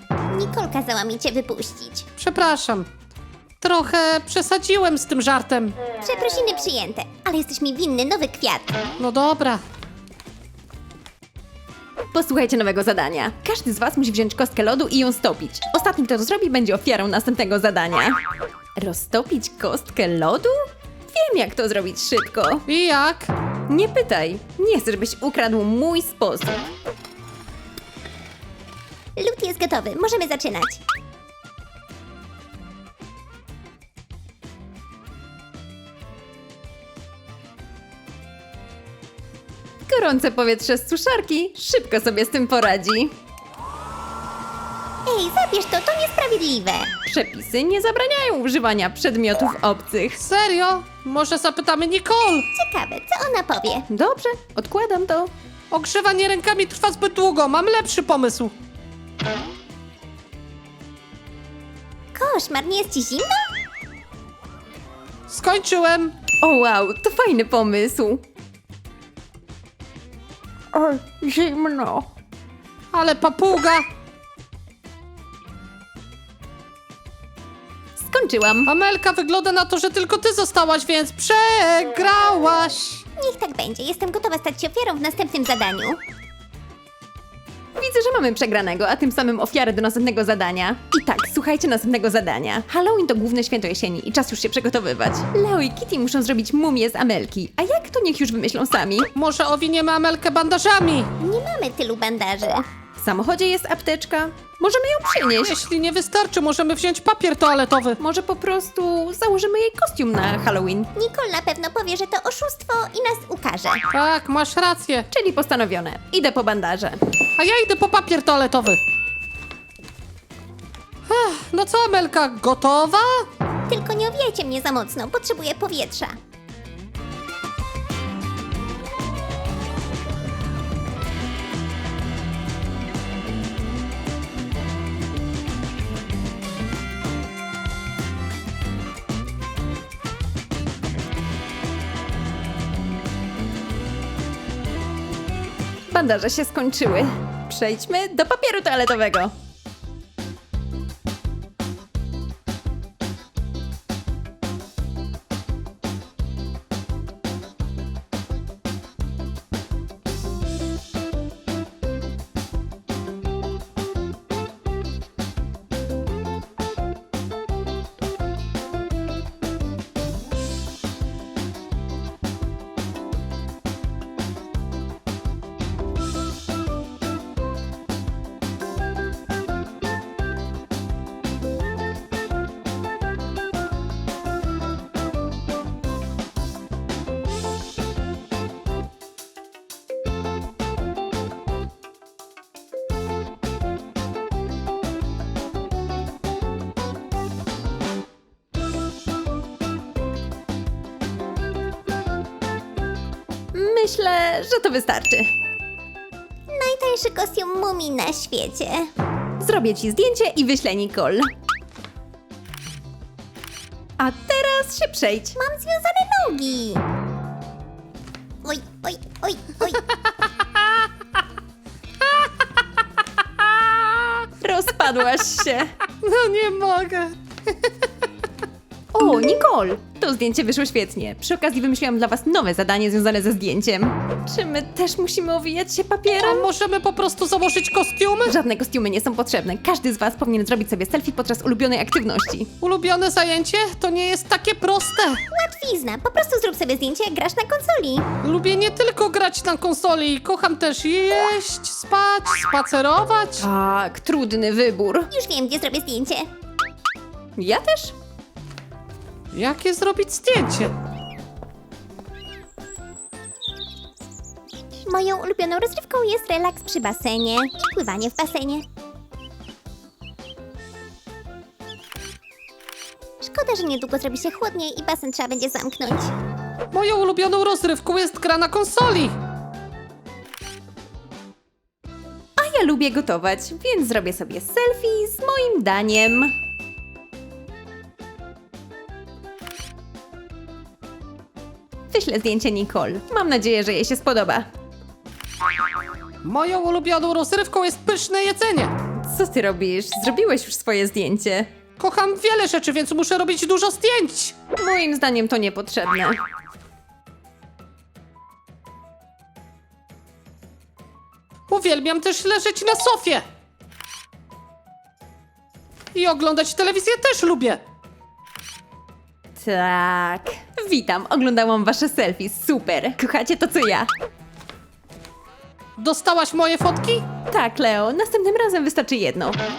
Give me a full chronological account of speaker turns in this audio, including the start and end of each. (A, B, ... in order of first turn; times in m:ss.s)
0:00.3-0:02.0 A
0:02.2-0:02.9 B
0:03.6-0:05.8 B
0:06.0-0:08.8 A
0:09.0-0:09.6 B
0:12.1-0:18.2 C
0:18.8-0:22.6 C
0:22.7-0:23.3 B
0:23.7-0:26.7 C
0:29.2-0:30.8 A
0:39.9-0:43.1 C
0:45.0-0:46.9 A
0:47.0-0:50.2 C
0:50.2-0:52.5 B
0:52.5-0:53.9 A
0:53.9-0:55.3 C
0:55.7-0:58.5 B
1:02.1-1:03.5 A
1:05.3-1:06.1 B
1:06.4-1:08.2 C
1:10.7-1:12.1 C
1:12.9-1:13.9 B
1:18.0-1:18.7 C
1:18.6-1:23.0 B
1:23.2-1:26.0 A
1:27.8-1:39.1 C
1:39.1-1:41.1 B
1:41.2-1:42.6 A
1:43.0-1:45.6 C
1:45.4-1:48.0 B
1:48.0-1:50.9 C
1:50.9-1:53.8 A
1:53.9-1:55.1 B
1:55.1-1:57.0 C
1:57.4-1:58.8 B
2:01.1-2:03.3 B
2:03.7-2:06.2 A
2:25.9-2:29.4 C
3:23.5-3:25.3 C
3:26.5-3:28.9 A
3:29.4-3:31.3 C
3:34.0-3:35.4 C
3:35.4-3:36.8 A
3:38.4-3:39.8 A
3:43.4-3:44.2 B
3:44.4-3:45.7 C
3:46.0-3:47.7 B
3:48.9-3:56.5 C
3:56.2-3:58.4 B
3:58.2-4:02.5 C
4:02.6-4:05.2 B
4:05.3-4:08.1 A
4:08.2-4:13.5 B
4:13.4-4:15.1 C
4:15.1-4:16.3 A
4:17.4-4:17.9 C
4:19.3-4:20.7 B
4:24.8-4:28.6 A
4:33.2-4:36.1 A
4:36.7-4:39.2 B
4:42.4-4:46.4 C
4:51.9-4:54.5 C
4:56.2-4:58.7 B
4:59.0-5:01.5 C
5:01.8-5:04.4 B
5:04.6-5:06.2 C
5:11.5-5:13.2 B
5:15.9-5:17.6 B
5:19.4-5:23.9 C
5:25.8-5:27.1 B
5:27.3-5:29.4 C